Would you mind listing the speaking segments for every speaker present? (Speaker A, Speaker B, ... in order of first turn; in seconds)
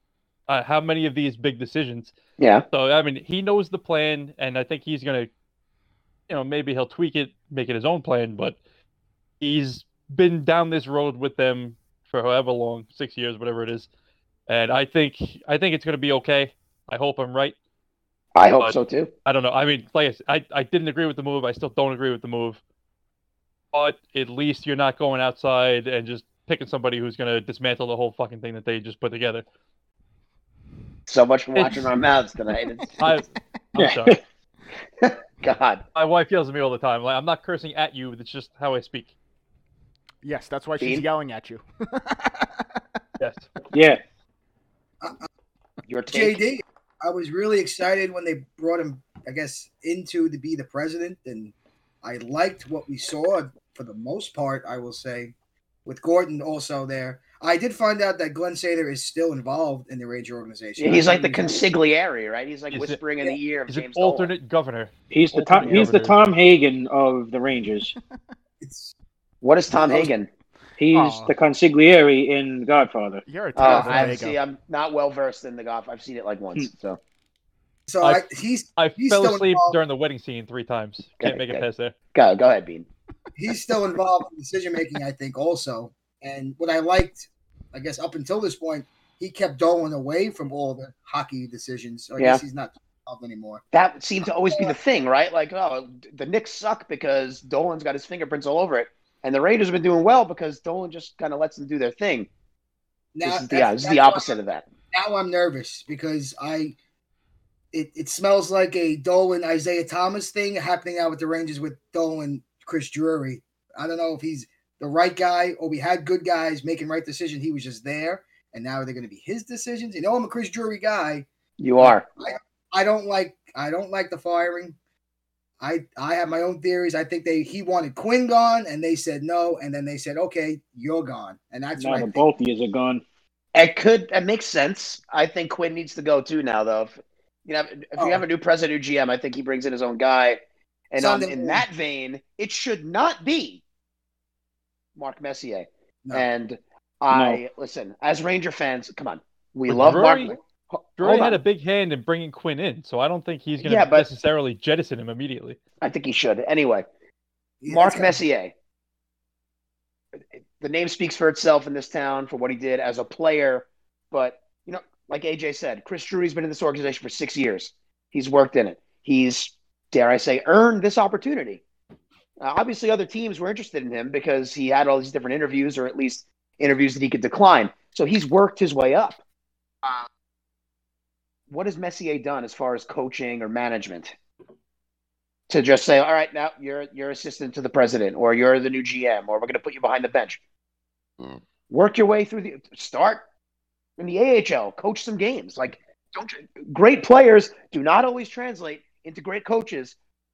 Speaker A: 0.5-2.1, 2.7-5.3, 6.3-8.6, 9.4-13.9, 14.5-17.6, 19.3-22.6, 23.7-29.4, 31.6-31.9, 33.0-34.2, 36.0-39.1, 43.2-43.5, 62.7-63.0, 63.7-66.2, 78.8-82.0, 149.7-150.3, 151.0-155.6
Speaker B: 2.4-2.6, 18.4-19.1, 31.1-33.0, 35.0-35.8, 40.8-41.0, 45.9-46.4, 60.8-64.3, 69.4-70.3, 73.6-77.0, 81.2-82.9, 93.7-102.3, 103.2-104.7, 121.6-122.1, 133.6-140.4, 140.9-143.6, 145.0-151.4, 153.6-154.1, 155.8-156.9, 157.7-158.5, 160.6-171.6, 172.4-179.2, 181.5-184.2, 185.5-190.4, 191.7-193.2, 194.0-199.9
Speaker C: 33.8-34.2, 43.7-44.0, 65.1-67.9, 70.8-73.2, 131.8-133.0, 147.1-147.4
Speaker D: 40.2-42.7, 70.9-71.4, 73.3-74.4
Speaker E: 46.1-55.3, 55.9-61.6, 68.6-68.9, 77.9-79.8, 83.4-93.6, 94.5-94.8, 103.2-104.3, 104.9-106.8, 107.7-121.3, 121.8-124.8, 125.6-132.2, 138.0-138.2, 141.0-141.6, 157.6-158.2